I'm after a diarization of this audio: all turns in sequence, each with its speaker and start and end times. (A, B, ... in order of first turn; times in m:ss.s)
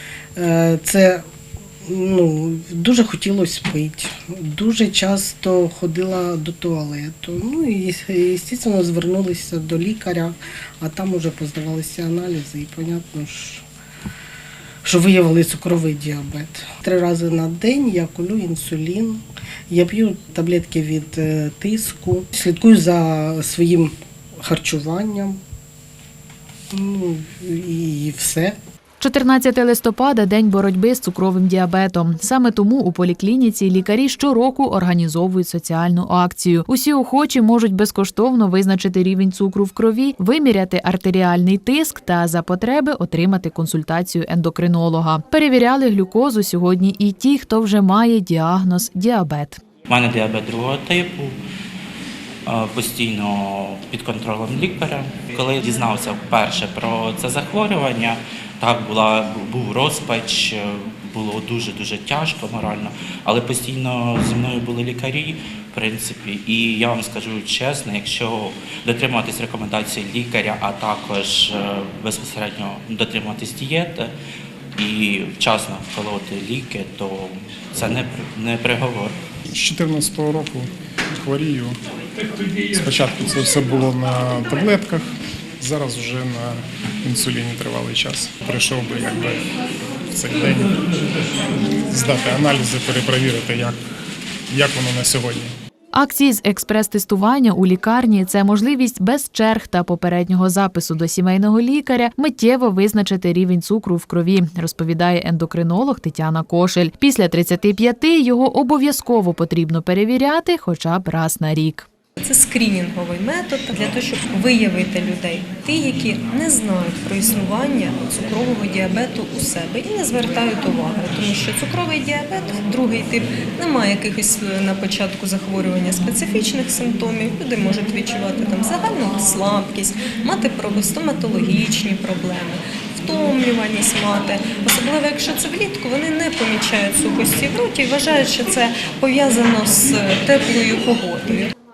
0:00.4-0:01.2 A
0:01.9-0:13.6 A
0:14.8-0:25.4 A
0:26.7-0:28.6 A
0:29.0-0:49.6 B
0:49.9-0:51.4 C
0:52.5-1:14.1 C
1:14.8-1:19.1 C
1:19.5-1:21.8 D
1:22.7-1:25.1 D
1:25.6-1:29.4 D
1:30.1-1:30.8 D
1:31.9-1:33.8 D
1:34.5-1:35.5 D
1:35.9-1:51.9 B
1:52.2-2:21.5 E